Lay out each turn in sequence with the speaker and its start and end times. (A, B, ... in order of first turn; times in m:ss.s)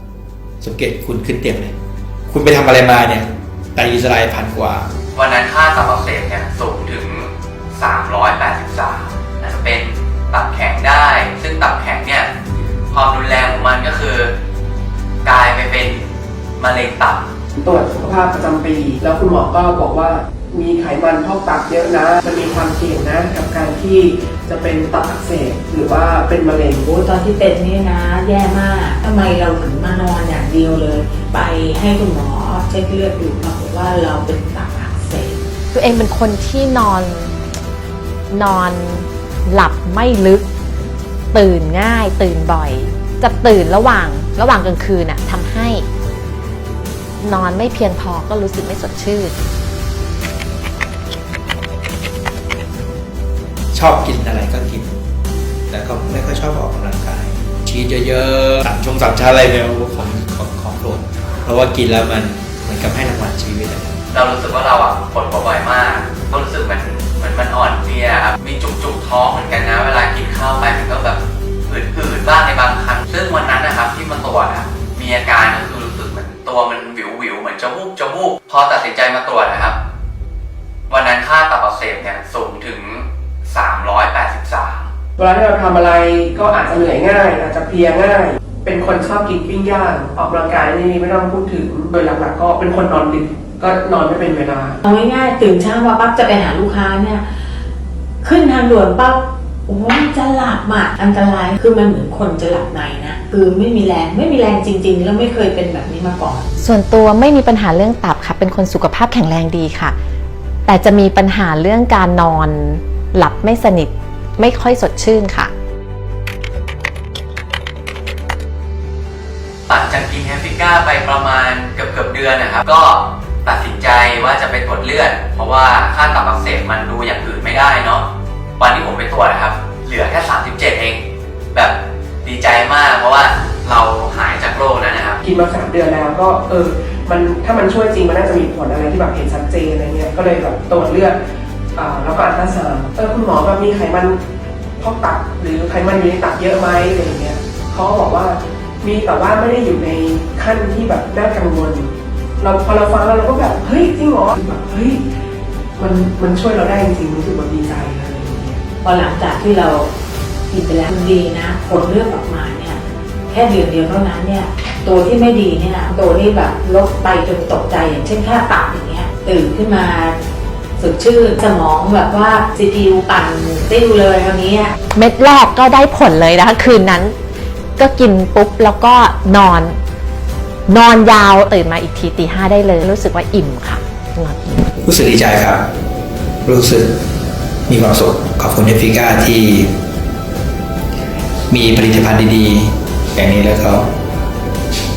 0:00.6-0:01.8 A
0:02.3-0:04.9 A
0:05.1-0:12.3 B
0:12.9-0:14.3 B
0:15.2-0:16.0 B
0:16.6-0:17.3 B
0:17.6-0:26.9 C
0:26.8-0:35.4 D
0:35.7-0:37.3 E
0:38.3-0:40.5 E
0:41.3-0:45.9 E
0:47.2-0:49.4 E
0:53.7-0:55.0 A
0:55.7-1:04.0 A
1:04.1-1:19.8 B
1:20.9-1:24.9 B
1:25.2-1:34.8 C
1:34.8-1:37.2 D
1:38.2-1:46.5 D
1:46.6-1:50.0 E
1:50.7-1:55.5 E
1:59.7-2:08.1 B
2:08.6-2:11.0 B
2:11.5-2:15.2 B
2:15.2-2:21.2 C
2:21.8-2:24.2 C
2:24.8-2:35.0 C
2:35.8-2:38.6 C
2:38.8-2:39.9 D
2:40.5-2:50.2 D
2:50.8-2:54.8 D
2:55.0-2:57.2 E
2:57.8-2:59.8 E
3:00.7-3:04.7 E
3:04.8-3:05.7 A
3:06.4-3:07.0 A
3:07.7-3:09.7 A
3:11.5-3:13.9 A